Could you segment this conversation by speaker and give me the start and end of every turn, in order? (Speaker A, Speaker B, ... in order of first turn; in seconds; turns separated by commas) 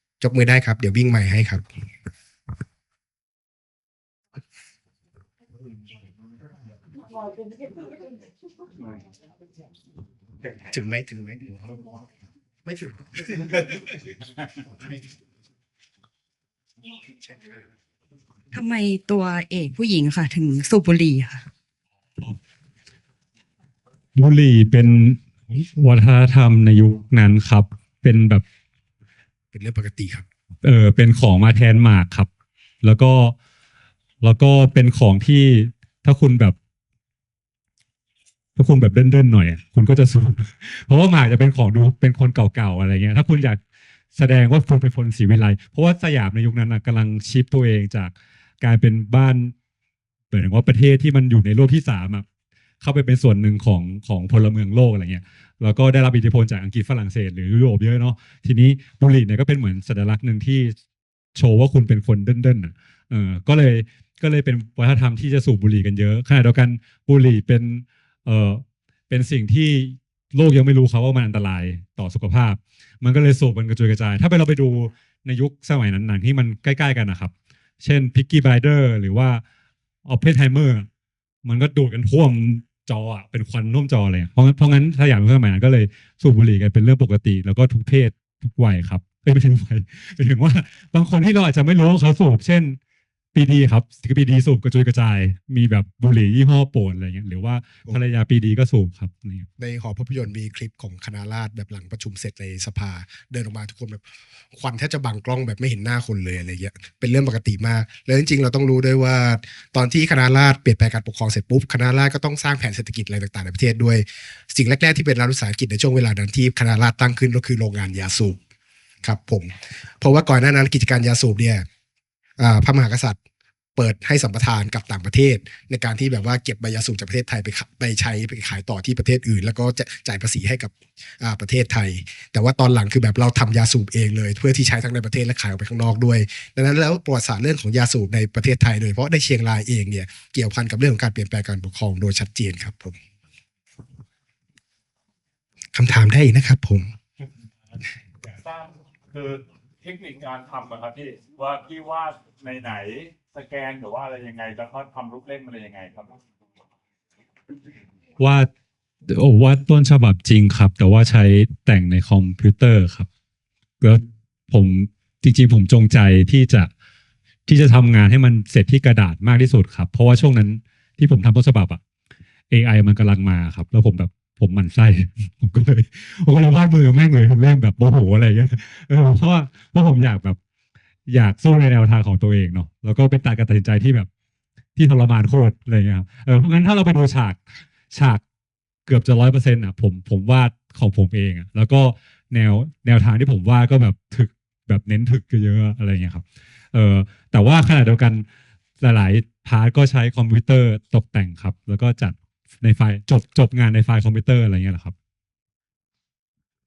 Speaker A: 0.2-1.6, Speaker A: 10.7-11.5, Speaker A: 12.7-13.5, Speaker B: 18.5-21.4, Speaker C: 24.1-28.4, Speaker A: 29.5-30.2, Speaker C: 30.6-32.3, Speaker C: 32.8-33.4, Speaker C: 34.2-36.6, Speaker C: 38.6-43.6, Speaker C: 44.1-49.5, Speaker C: 50.3-52.2, Speaker C: 52.8-60.8, Speaker C: 61.4-79.4, Speaker C: 80.1-80.9, Speaker C: 81.5-92.8, Speaker C: 93.3-99.5, Speaker A: 99.6-104.0, Speaker A: 104.5-118.4, Speaker A: 119.0-121.7, Speaker A: 122.4-123.2, Speaker A: 123.8-143.0, Speaker A: 145.7-146.9, Speaker D: 148.2-156.2, Speaker C: 158.2-158.5, Speaker C: 159.1-163.1, Speaker C: 163.8-166.7, Speaker C: 167.5-171.8, Speaker C: 172.5-180.4, Speaker C: 181.1-184.1, Speaker C: 184.8-188.2, Speaker C: 188.9-198.2, Speaker C: 198.8-204.9